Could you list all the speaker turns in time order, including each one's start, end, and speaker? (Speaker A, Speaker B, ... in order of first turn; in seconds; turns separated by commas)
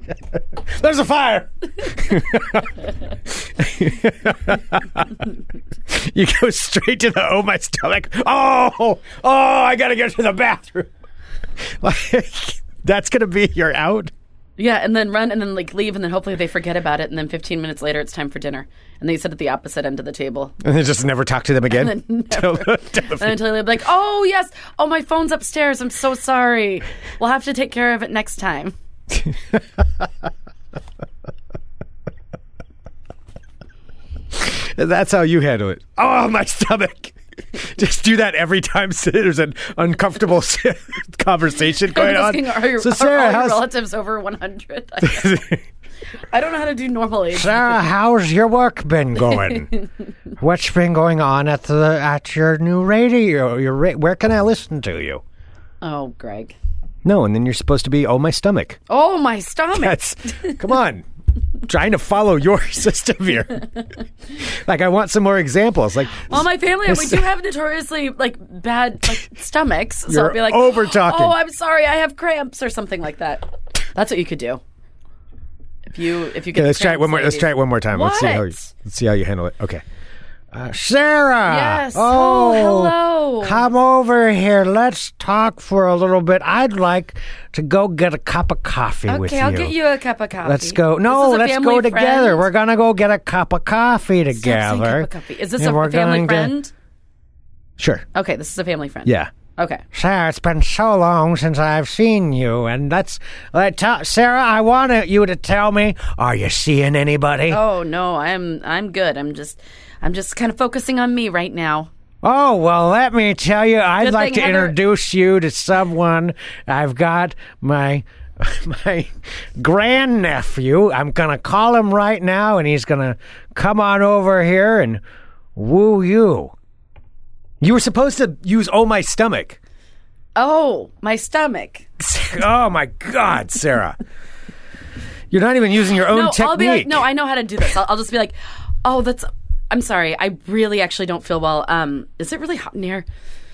Speaker A: 0.3-5.3, Speaker A: 5.9-10.9, Speaker A: 11.6-14.1, Speaker B: 14.6-20.5, Speaker A: 20.6-23.4, Speaker B: 21.7-28.7, Speaker A: 29.2-29.6, Speaker A: 34.3-43.6, Speaker B: 41.9-45.4, Speaker A: 45.0-45.6, Speaker B: 46.3-47.8, Speaker A: 47.3-49.7, Speaker A: 50.4-55.2, Speaker B: 55.8-56.5, Speaker A: 57.0-58.8, Speaker B: 58.9-60.6, Speaker A: 59.7-61.0, Speaker A: 61.6-63.7, Speaker A: 64.3-67.3, Speaker B: 66.2-74.6, Speaker A: 70.1-71.3, Speaker B: 75.9-78.7, Speaker A: 76.5-79.8, Speaker A: 80.5-89.7, Speaker B: 81.4-83.6, Speaker B: 89.1-92.5, Speaker A: 90.4-96.5, Speaker B: 94.3-96.7, Speaker A: 97.8-98.0, Speaker B: 98.1-99.8, Speaker A: 99.0-99.3, Speaker A: 99.9-107.6, Speaker B: 107.5-111.9, Speaker A: 112.2-125.0, Speaker B: 114.0-114.8, Speaker A: 125.5-126.5, Speaker A: 127.6-129.6, Speaker B: 130.3-131.8, Speaker A: 132.0-134.0, Speaker A: 135.3-137.0, Speaker B: 136.1-143.1